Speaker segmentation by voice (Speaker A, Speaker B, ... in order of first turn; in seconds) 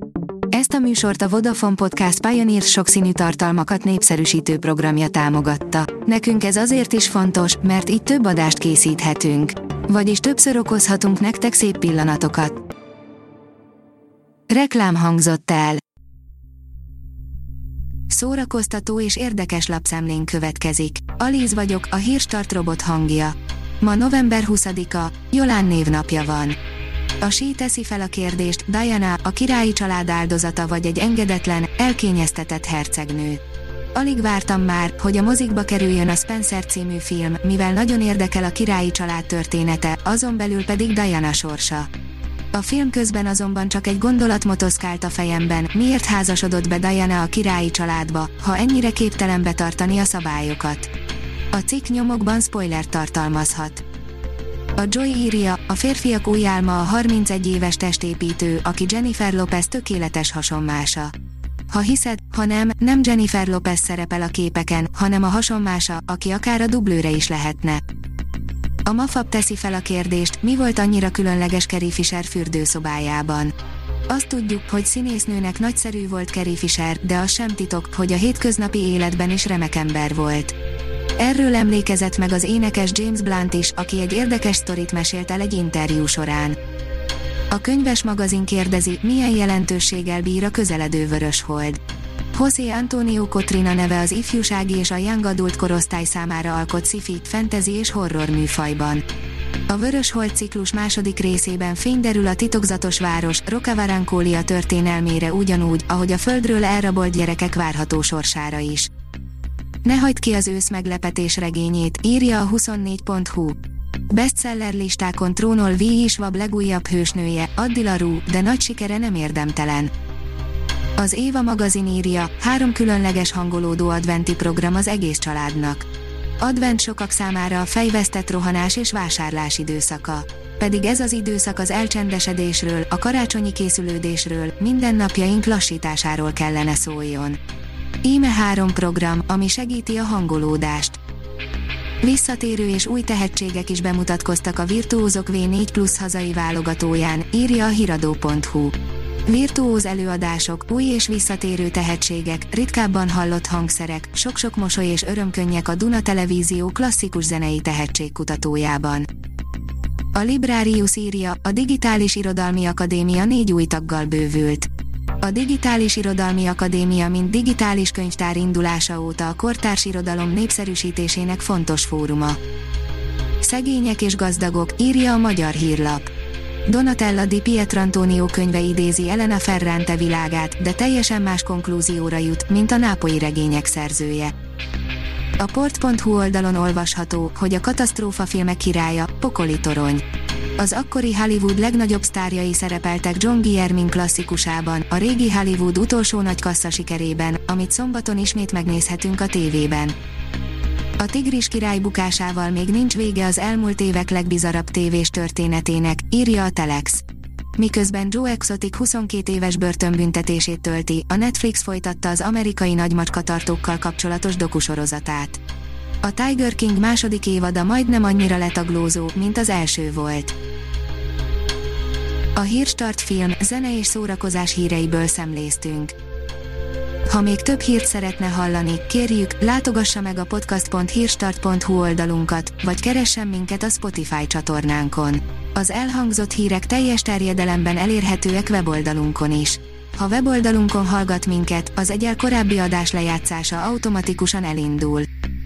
Speaker A: 0.5-12.6, 14.5-15.8, 18.1-26.6, 27.2-33.4, 33.9-41.9, 42.5-50.9, 51.5-53.8, 54.7-61.1, 61.7-67.8, 68.8-73.5, 74.1-80.5, 81.2-86.6, 87.5-91.8, 92.3-99.0, 99.7-108.9, 109.8-113.6, 114.1-119.9, 121.0-125.9, 126.4-137.4, 138.0-141.0, 142.0-159.1, 160.1-172.4, 173.4-176.1, 176.7-184.3, 185.4-190.0, 190.6-199.9, 201.0-207.0, 207.6-215.4, 216.0-220.3, 222.3-225.9, 227.1-245.1